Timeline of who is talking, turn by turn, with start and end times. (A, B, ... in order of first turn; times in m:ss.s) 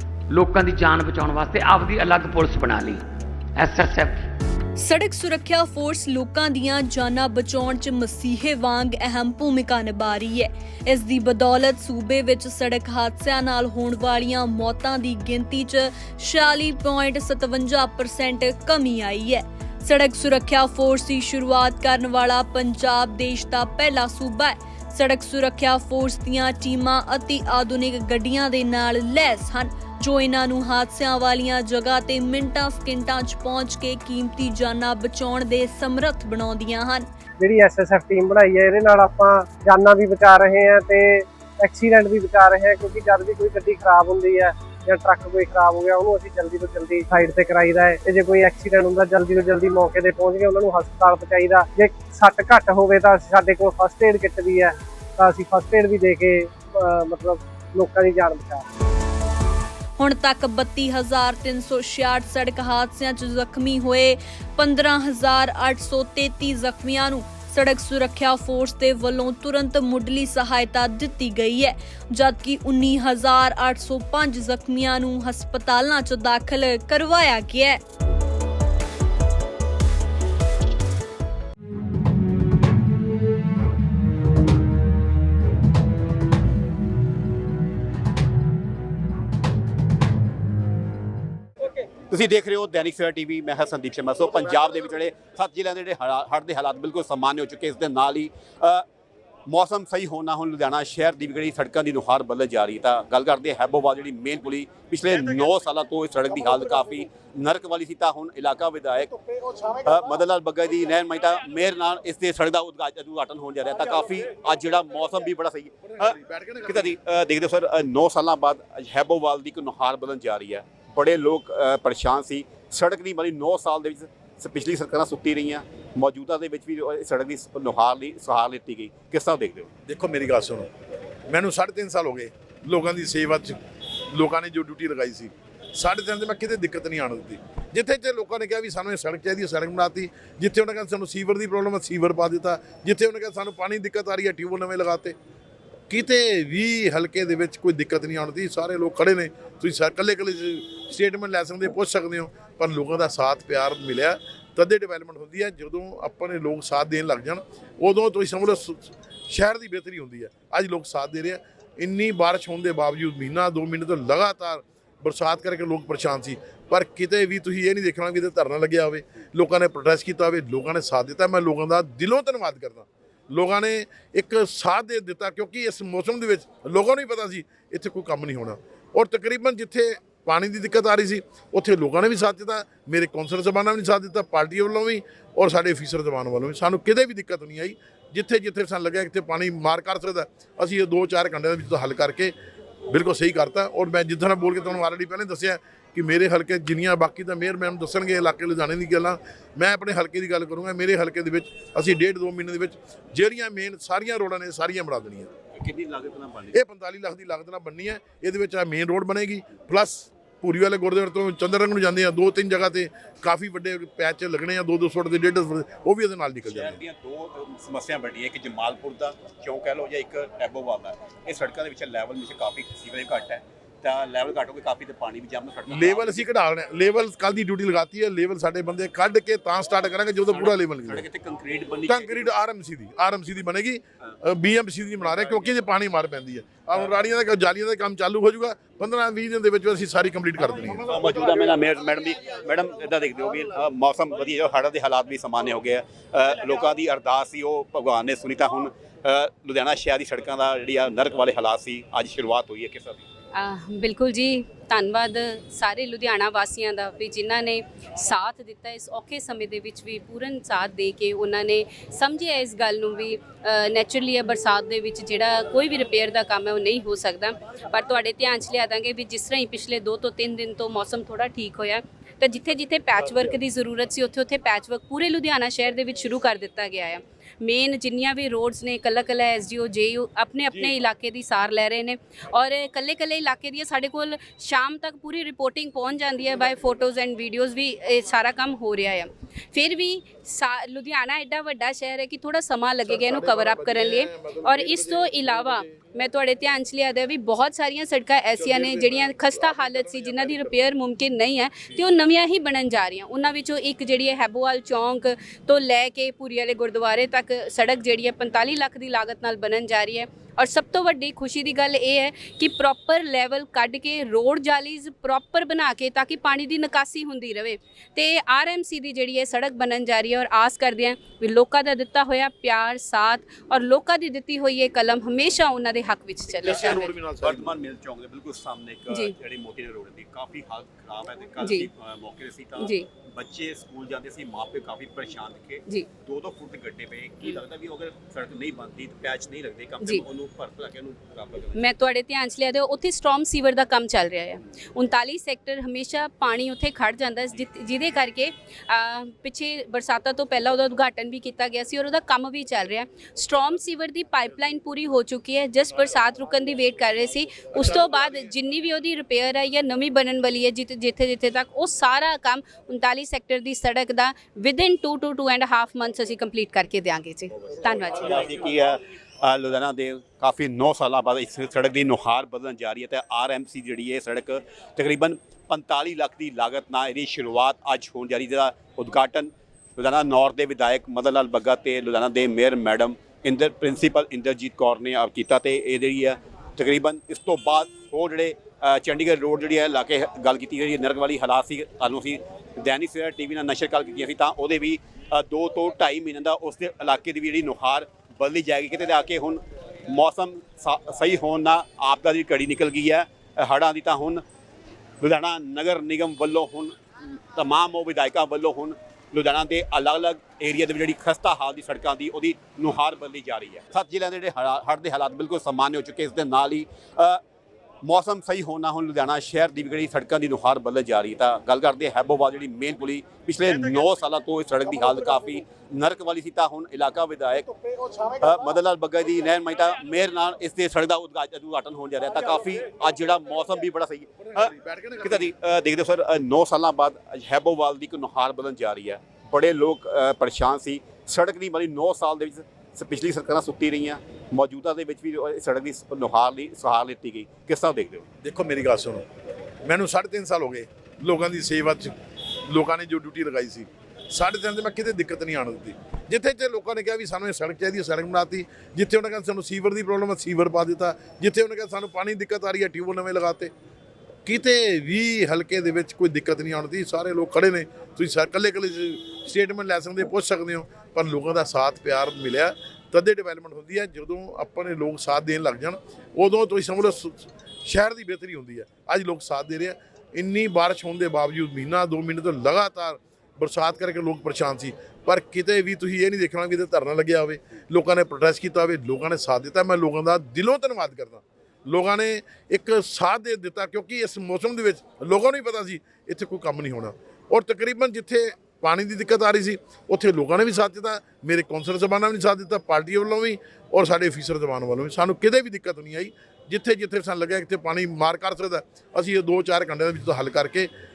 0:00.3-0:03.0 A
0:03.6-0:04.2 A
0:04.8-0:37.1 B
0:37.4-0:58.6 C
1:00.0-1:17.8 B
1:32.1-1:38.8 D
1:39.5-2:09.7 D
1:55.9-1:57.0 E
2:09.9-2:10.7 E
2:11.3-2:13.6 E
2:14.1-2:25.2 E
2:25.9-3:12.3 E
3:12.9-3:25.3 E
3:25.5-3:26.6 D
3:26.5-3:36.8 E
3:36.4-3:46.3 D
3:45.7-3:51.1 E
3:50.3-3:52.3 D
3:51.9-4:00.8 E
3:55.0-3:55.5 D
4:00.9-4:13.0 D
4:13.3-5:26.9 F
4:52.8-4:55.8 E
4:58.4-5:00.6 E
5:26.4-5:27.6 E
5:26.4-5:41.7 D
5:28.9-5:29.1 F
5:31.4-5:31.7 F
5:32.6-5:32.9 F
5:41.6-6:08.2 F
6:07.9-6:44.2 D
6:45.0-6:46.8 D
6:47.3-6:57.2 D
6:57.8-7:07.5 D
7:08.0-7:28.1 D
7:14.2-7:15.3 E
7:28.2-7:29.0 E
7:29.6-7:31.9 E
7:32.5-7:43.5 E
7:44.3-8:30.7 E